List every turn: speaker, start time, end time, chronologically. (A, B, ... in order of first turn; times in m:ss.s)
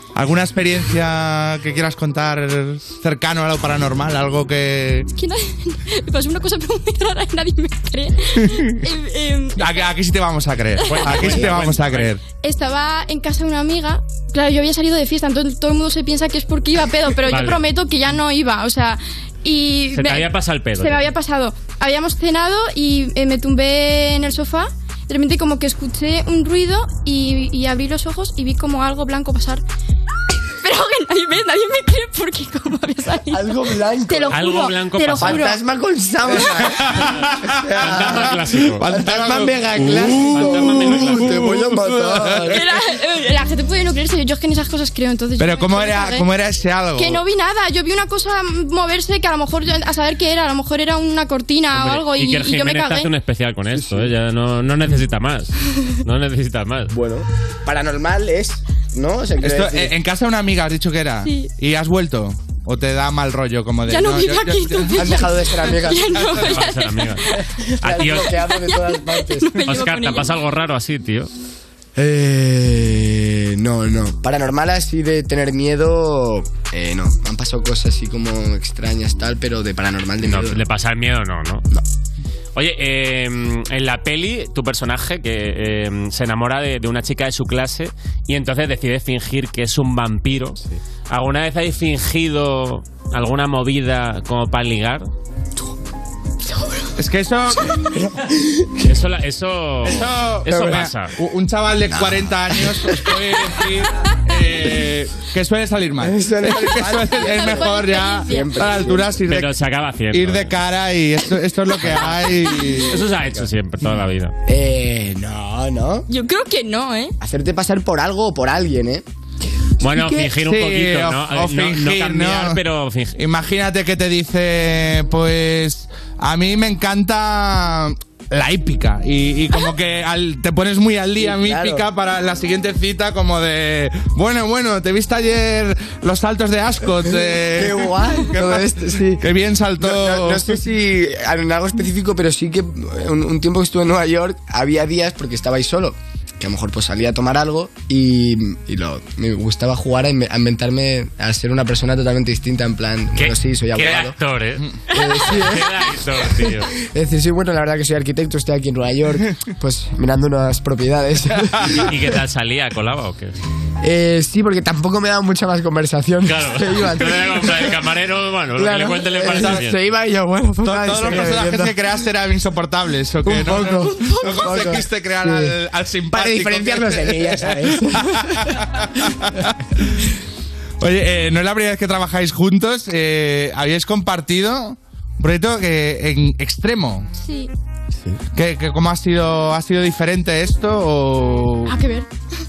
0:00.1-0:05.1 A
0:05.2-0:09.8 B
0:08.4-0:08.8 A
0:09.6-0:12.2 A
0:10.8-0:12.1 C
0:10.9-0:11.1 B
0:12.3-0:29.6 B
0:17.3-0:17.6 C
0:19.9-0:21.0 C
0:30.6-0:33.6 B
0:33.3-0:34.4 D
0:34.1-0:35.6 B
0:34.3-0:35.5 C
0:35.2-0:42.6 D
0:36.3-0:42.6 A
0:36.9-0:38.9 C
0:39.8-0:41.3 C
0:42.5-0:46.2 B
0:45.4-0:47.2 A
0:47.0-0:53.1 B
0:51.7-0:56.9 C
0:53.7-0:54.1 D
0:56.9-0:59.9 D
0:59.4-1:05.2 A
1:01.2-1:01.5 B
1:03.9-1:07.4 B
1:04.9-1:06.1 D
1:06.1-1:06.4 A
1:06.4-1:07.2 C
1:07.5-1:09.6 D
1:07.8-1:08.5 C
1:08.2-1:10.3 B
1:09.6-1:11.3 C
1:12.0-1:20.6 D
1:20.2-1:21.6 C
1:22.5-1:35.1 C
1:37.0-1:37.7 A
1:37.8-1:38.8 D
1:38.8-1:41.1 C
1:39.8-1:49.6 A
1:40.5-1:40.8 D
1:41.8-1:43.1 D
1:46.0-1:49.2 D
1:47.2-1:48.8 B
1:49.3-1:50.5 C
1:50.1-1:53.0 A
1:51.8-1:52.1 C
1:52.9-1:54.3 C
1:54.5-1:56.0 D
1:56.1-1:57.1 B
1:57.2-1:59.0 D
1:59.8-2:03.2 C
1:59.9-2:02.6 A
2:03.2-2:20.6 A
2:11.2-2:11.8 D
2:17.0-2:19.2 D
2:19.8-2:34.1 D
2:33.1-2:34.7 C
2:34.9-2:35.7 D
2:35.2-2:36.7 C
2:36.4-2:41.5 D
2:41.3-2:41.9 A
2:41.8-2:43.3 C
2:43.8-2:47.8 D
2:46.2-2:49.8 C
2:48.6-2:51.8 D
2:49.3-2:49.6 A
2:50.6-2:59.6 A
2:53.2-2:55.6 D
2:53.9-2:54.4 B
2:56.1-2:58.4 D
3:00.8-3:07.1 A
3:07.2-3:07.5 B
3:08.4-3:11.8 A
3:11.6-3:12.1 B